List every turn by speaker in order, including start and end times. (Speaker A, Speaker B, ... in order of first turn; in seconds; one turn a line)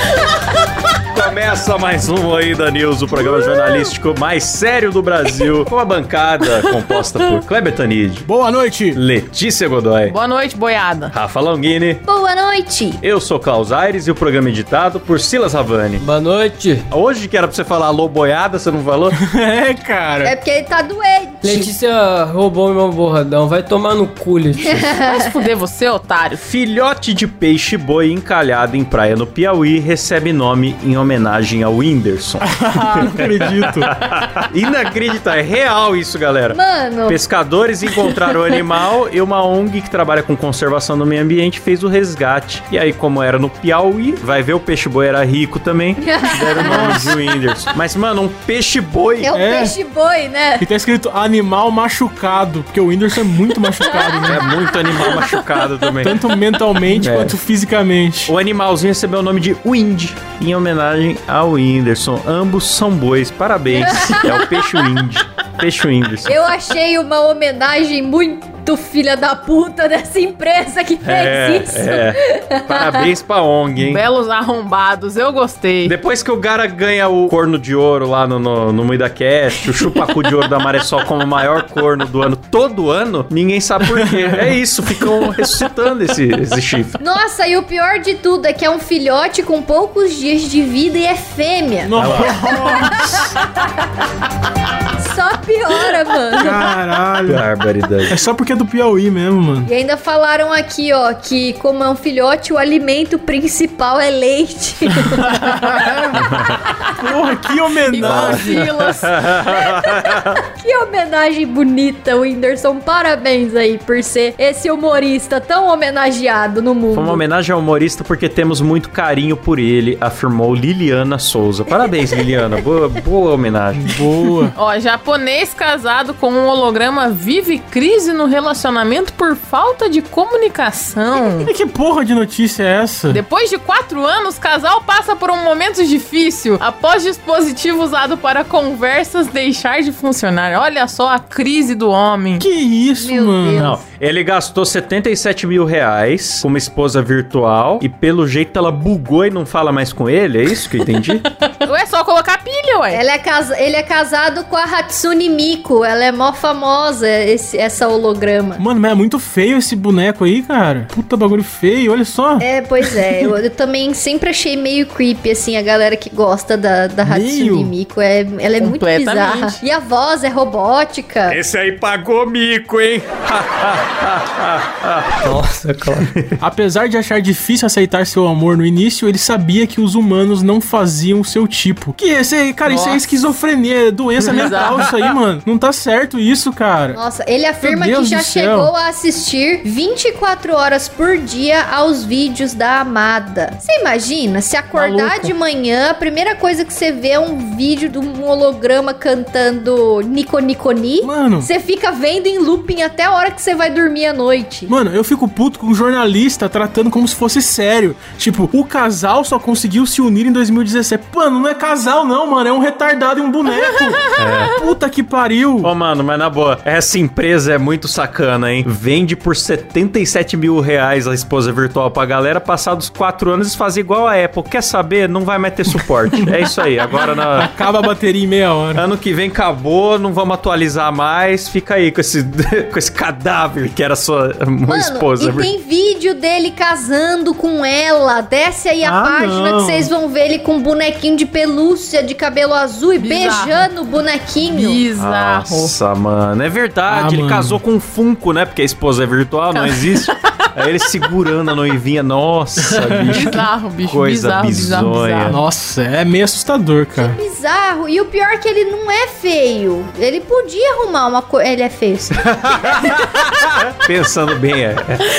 Speaker A: 1.1-8.3
Speaker B: 8.2-9.0
Speaker A: 8.9-10.2
Speaker C: 10.1-11.1
Speaker A: 11.1-12.0
Speaker D: 12.1-13.0
Speaker A: 13.0-16.0
Speaker E: 16.0-16.9
Speaker A: 16.9-19.2
Speaker B: 19.1-20.3
Speaker D: 20.2-21.7
Speaker E: 21.4-24.9
Speaker D: 24.6-25.2
Speaker C: 25.0-26.4
Speaker A: 26.4-49.3
Speaker B: 32.4-33.9
Speaker D: 36.5-37.2
Speaker D: 46.0-47.2
Speaker B: 46.6-47.1
Speaker D: 49.2-50.6
Speaker B: 49.3-49.7
Speaker B: 50.6-54.5
Speaker D: 53.8-55.3
Speaker A: 54.2-56.2
Speaker B: 56.0-58.3
Speaker A: 56.9-57.4
Speaker A: 58.3-66.4
Speaker D: 63.7-64.4
Speaker D: 66.2-73.0
Speaker A: 71.0-74.0
Speaker C: 73.8-76.0
Speaker A: 75.8-87.0
Speaker B: 83.8-85.2
Speaker D: 87.0-93.3
Speaker B: 91.8-93.3
Speaker A: 92.0-92.4
Speaker D: 95.0-96.8
Speaker B: 96.4-97.5
Speaker A: 97.3-98.2
Speaker B: 98.0-99.7
Speaker D: 99.7-105.8
Speaker B: 105.7-106.0
Speaker A: 106.1-106.6
Speaker B: 107.0-108.6
Speaker C: 107.9-109.1
Speaker A: 108.0-110.3
Speaker D: 109.5-117.2
Speaker A: 116.9-123.9
Speaker B: 123.7-124.5
Speaker C: 124.5-131.5
Speaker B: 131.3-133.2
Speaker C: 133.1-142.4
Speaker B: 142.4-143.7
Speaker D: 143.0-143.8
Speaker A: 143.5-151.2
Speaker C: 151.6-153.0
Speaker D: 152.9-158.6
Speaker B: 158.6-163.3
Speaker D: 162.4-171.4
Speaker B: 167.0-167.7
Speaker C: 168.6-169.6
Speaker A: 171.3-175.2
Speaker E: 175.2-176.1
Speaker B: 176.4-187.0
Speaker C: 182.7-183.3
Speaker C: 184.3-184.8
Speaker A: 184.6-184.9
Speaker D: 186.9-204.7
Speaker B: 187.6-188.7
Speaker B: 194.7-195.3
Speaker B: 201.0-201.5
Speaker B: 204.7-215.7
Speaker A: 214.1-214.6
Speaker A: 215.6-227.5
Speaker B: 225.7-226.3
Speaker B: 227.4-228.8
Speaker A: 228.7-235.5
Speaker D: 234.7-244.8
Speaker B: 238.8-239.9
Speaker C: 243.0-243.7
Speaker C: 244.5-245.7
Speaker A: 244.9-255.4
Speaker B: 246.9-247.6
Speaker C: 249.5-250.2
Speaker B: 252.6-253.4
Speaker C: 253.1-255.4
Speaker B: 255.3-257.2
Speaker D: 257.0-262.2
Speaker A: 262.4-265.0
Speaker D: 262.7-263.0